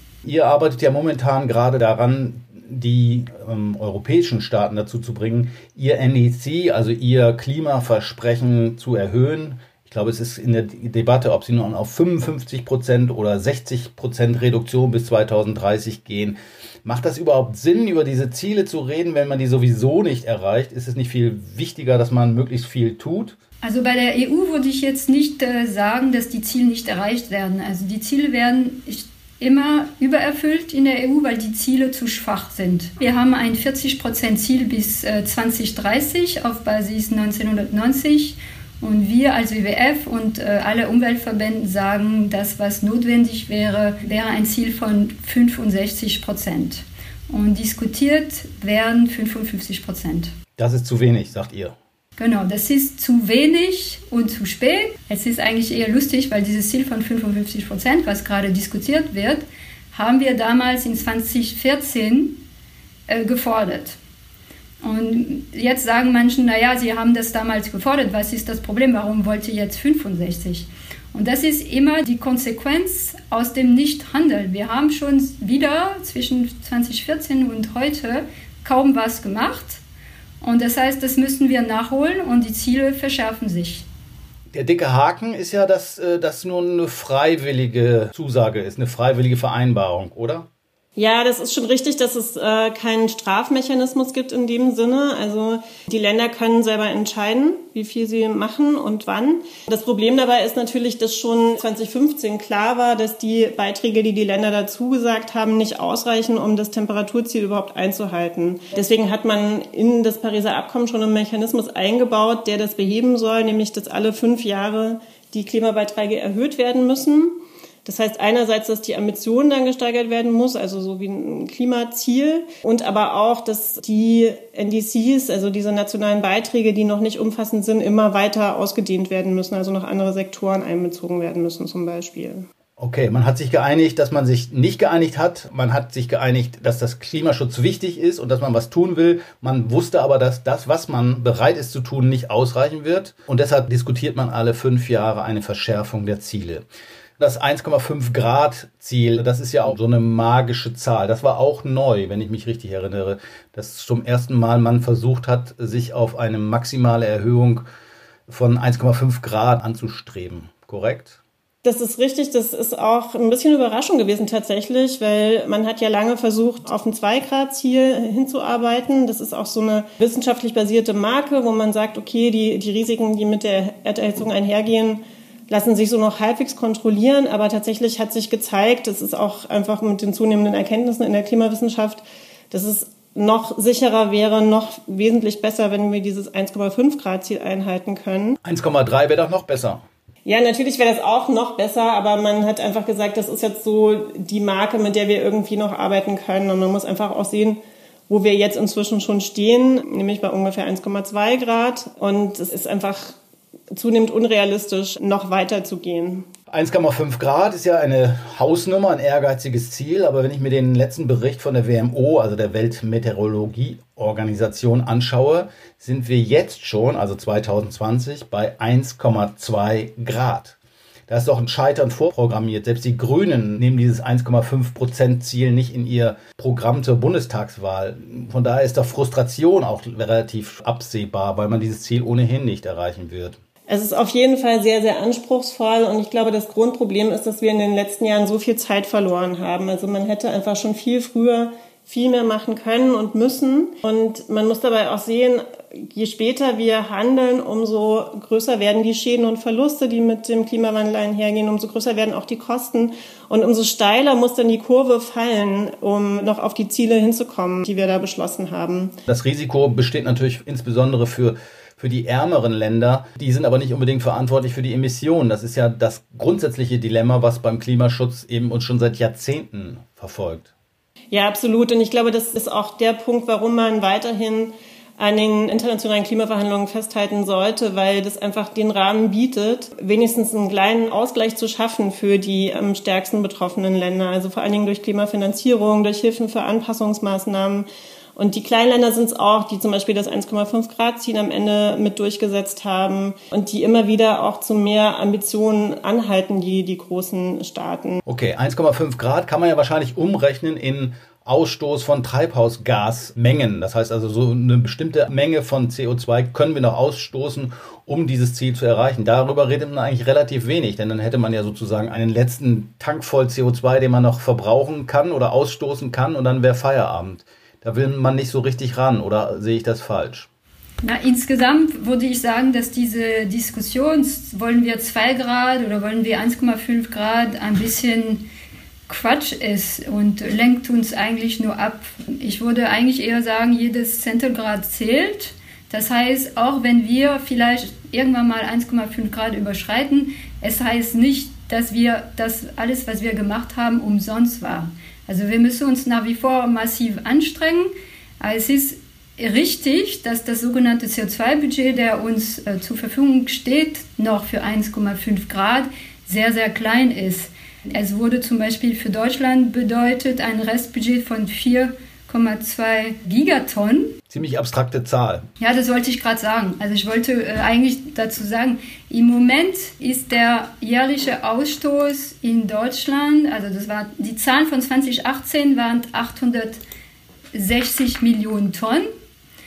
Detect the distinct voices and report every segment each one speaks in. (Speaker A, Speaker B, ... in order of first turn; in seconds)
Speaker A: 0.2-23.4, 50.6-51.8, 84.5-90.5, 132.8-146.7, 147.2-157.6, 158.3-161.2, 188.4-189.8, 206.5-233.4, 259.1-270.5, 298.1-320.3, 364.1-365.3
Speaker B: 23.6-50.3, 52.2-62.4, 63.1-64.0, 64.8-79.8, 80.4-83.9, 320.8-328.2, 328.9-363.9, 365.4-376.6, 377.3-378.9
Speaker C: 91.0-132.5, 161.6-188.4, 190.2-203.2, 203.7-206.3, 233.7-259.0, 271.1-298.0